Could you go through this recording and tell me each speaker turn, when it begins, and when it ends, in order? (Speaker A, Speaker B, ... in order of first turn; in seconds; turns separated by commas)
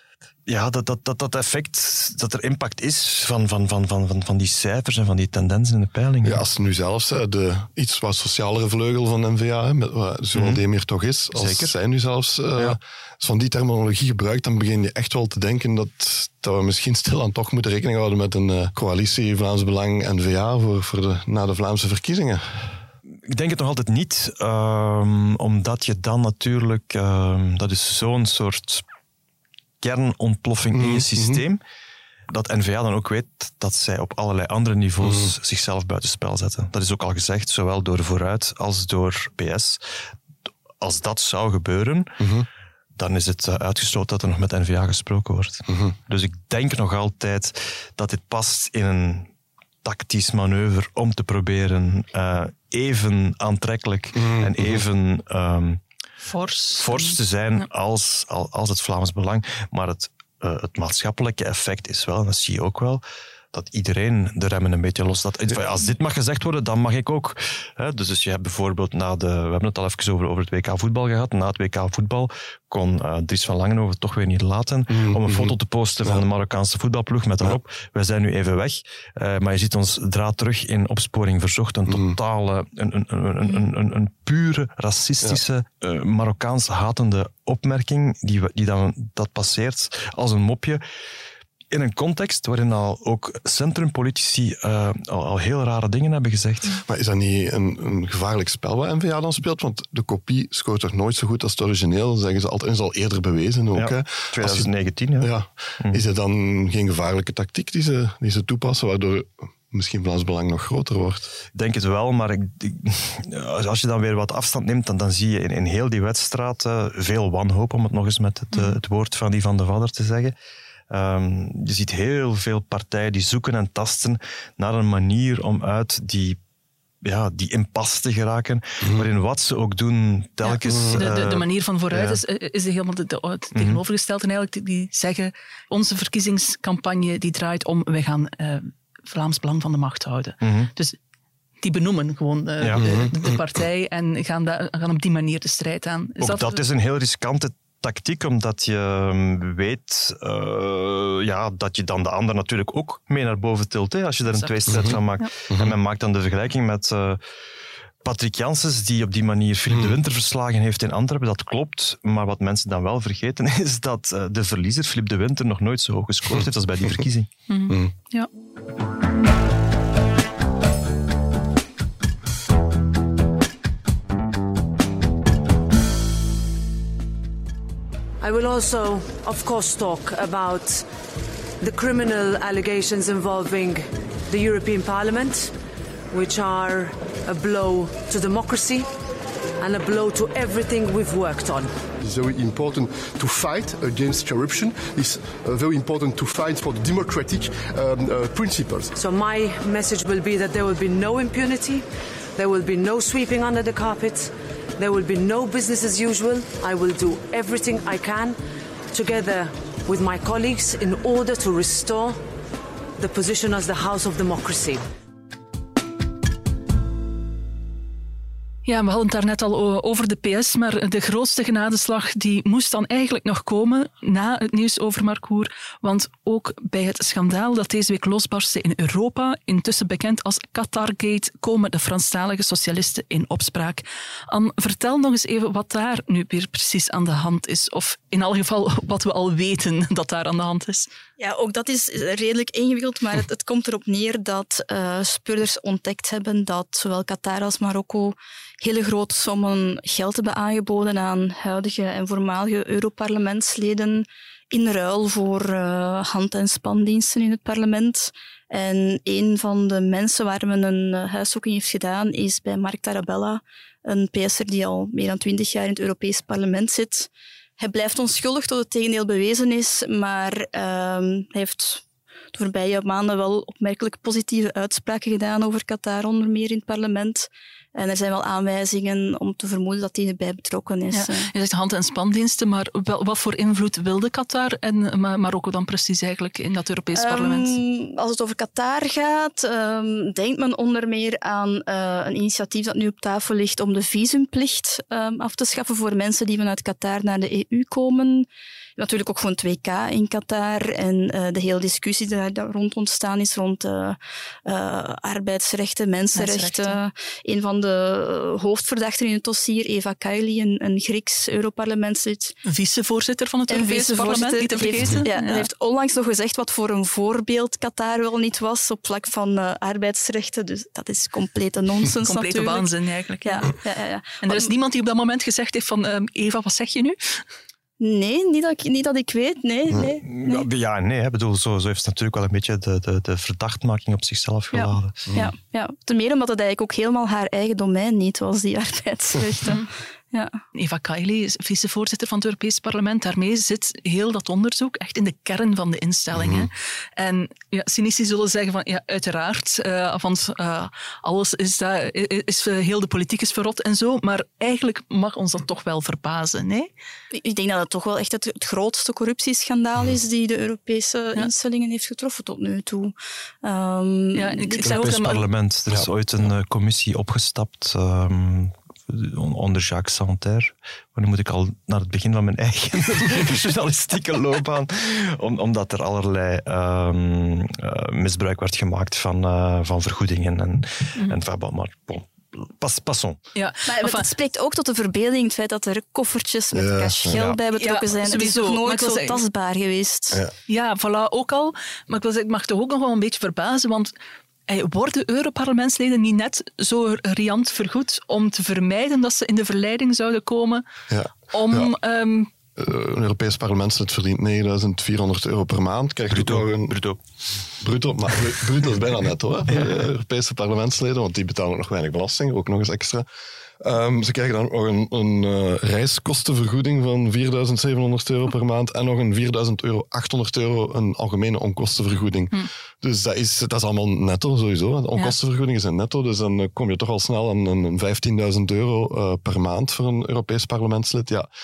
Speaker A: 0.5-6.4, Speaker B: 6.2-22.8, Speaker A: 10.3-10.6, Speaker A: 11.3-11.7, Speaker A: 23.3-28.9, Speaker A: 29.8-31.6, Speaker B: 30.7-31.4, Speaker A: 32.3-39.8, Speaker B: 35.0-35.3, Speaker A: 40.8-42.2, Speaker B: 42.2-42.5, Speaker A: 43.0-49.3, Speaker B: 45.7-46.0, Speaker A: 49.8-55.8, Speaker B: 54.1-54.8, Speaker C: 56.2-57.7, Speaker A: 56.7-90.8, Speaker B: 74.9-76.2, Speaker B: 81.9-82.2, Speaker A: 91.7-96.8, Speaker B: 96.8-111.3, Speaker A: 103.8-106.0, Speaker A: 111.5-120.3, Speaker C: 118.5-118.8, Speaker A: 120.9-126.4, Speaker A: 127.0-132.2, Speaker C: 130.4-141.0, Speaker B: 130.7-131.1, Speaker A: 133.6-133.8, Speaker A: 140.4-140.7, Speaker C: 141.6-146.6, Speaker A: 142.6-143.0, Speaker B: 142.8-143.3, Speaker A: 146.2-157.2, Speaker C: 154.3-155.3, Speaker B: 154.7-155.0, Speaker B: 155.5-155.8, Speaker A: 158.0-167.3, Speaker B: 159.7-160.0, Speaker B: 166.3-167.0, Speaker C: 167.5-168.3, Speaker D: 178.2-180.9, Speaker D: 181.6-185.6, Speaker D: 186.1-188.9, Speaker D: 189.6-191.7, Speaker E: 192.0-198.9, Speaker D: 198.9-208.4, Speaker D: 208.9-212.2, Speaker D: 213.0-214.9, Speaker C: 218.7-240.9, Speaker F: 241.2-271.8, Speaker F: 272.3-281.3, Speaker C: 280.9-287.6, Speaker F: 286.9-312.4, Speaker C: 306.1-306.8, Speaker C: 312.4-315.5, Speaker F: 313.5-322.7, Speaker C: 322.1-323.6, Speaker F: 323.2-324.5, Speaker C: 324.2-327.2, Speaker F: 327.8-330.5, Speaker A: 330.0-335.0, Speaker F: 334.5-340.4, Speaker B: 335.1-335.3, Speaker C: 340.6-356.7, Speaker B: 346.1-346.5, Speaker F: 357.1-364.9, Speaker C: 364.1-365.3, Speaker A: 364.6-383.2, Speaker C: 383.4-384.1, Speaker F: 383.7-390.2, Speaker B: 386.6-387.2, Speaker A: 387.1-387.4, Speaker C: 387.5-389.2, Speaker C: 390.5-393.9, Speaker C: 394.5-400.6, Speaker B: 400.9-401.7, Speaker C: 401.3-402.3, Speaker B: 402.6-406.8, Speaker A: 406.1-407.0, Speaker B: 407.6-413.1, Speaker B: 413.6-431.3